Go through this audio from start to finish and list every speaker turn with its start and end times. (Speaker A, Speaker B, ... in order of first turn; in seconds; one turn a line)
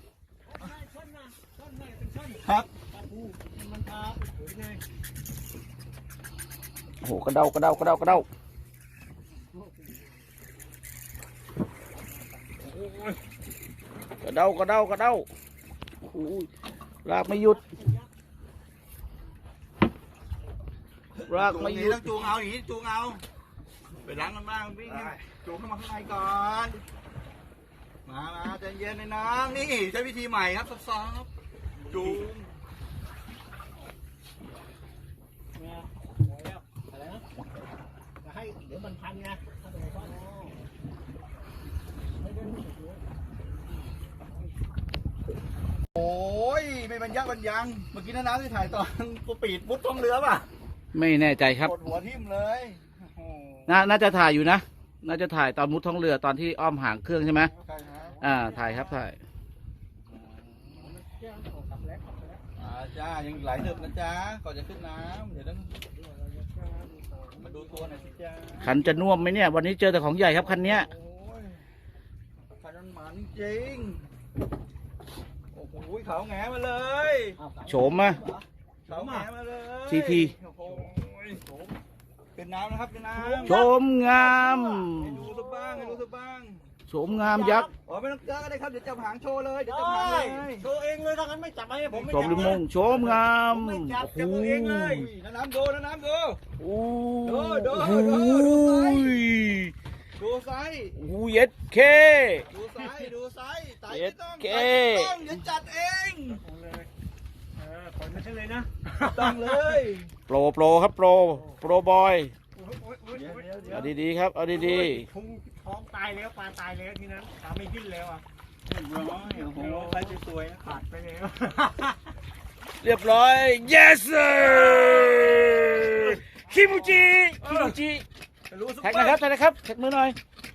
Speaker A: 0.6-4.8
Speaker B: 2.4-2.7
Speaker C: 7.0-8.3
Speaker B: 12.8-13.2
Speaker C: 14.2-15.3
Speaker C: 16.0-16.5
Speaker C: 17.0-17.6
Speaker A: 17.5-18.0
Speaker B: 21.2-23.2
Speaker C: 21.3-22.3
Speaker B: 24.0-26.8
Speaker B: 28.1-31.3
Speaker B: 31.9-32.5
Speaker A: 31.9-32.2
Speaker A: 35.5-37.2
Speaker A: 38.2-40.5
Speaker A: 42.2-43.0
Speaker B: 45.9-50.5
Speaker C: 50.9-51.7
Speaker B: 51.5-53.8
Speaker C: 53.7-57.5
Speaker B: 57.6-58.2
Speaker A: 58.0-59.0
Speaker C: 58.2-59.2
Speaker B: 60.1-60.9
Speaker A: 60.8-62.4
Speaker B: 62.6-65.7
Speaker A: 66.0-68.2
Speaker B: 67.4-68.9
Speaker C: 68.6-70.9
Speaker B: 70.4-71.6
Speaker B: 72.6-74.1
Speaker B: 75.5-77.4
Speaker A: 77.4-79.3
Speaker C: 77.7-78.2
Speaker B: 78.9-81.4
Speaker C: 79.9-80.3
Speaker A: 81.5-81.7
Speaker B: 82.3-83.7
Speaker A: 83.2-86.0
Speaker C: 83.4-85.2
Speaker B: 84.9-86.7
Speaker C: 86.9-87.7
Speaker A: 87.1-87.7
Speaker B: 87.8-90.6
Speaker A: 89.6-92.6
Speaker B: 91.9-93.2
Speaker C: 92.1-95.1
Speaker A: 93.4-95.0
Speaker B: 94.3-96.4
Speaker C: 96.6-99.7
Speaker B: 97.2-99.2
Speaker B: 100.2-101.0
Speaker C: 101.0-102.5
Speaker B: 102.5-106.4
Speaker C: 103.9-105.2
Speaker A: 106.4-106.9
Speaker A: 107.5-109.6
Speaker B: 109.0-110.1
Speaker C: 110.3-112.3
Speaker A: 112.5-113.8
Speaker B: 113.1-113.9
Speaker C: 113.7-115.1
Speaker A: 114.5-118.2
Speaker B: 118.7-120.6
Speaker A: 119.2-122.0
Speaker C: 122.8-128.0
Speaker A: 126.5-127.1
Speaker B: 127.4-127.8
Speaker B: 128.5-129.2
Speaker C: 128.8-130.2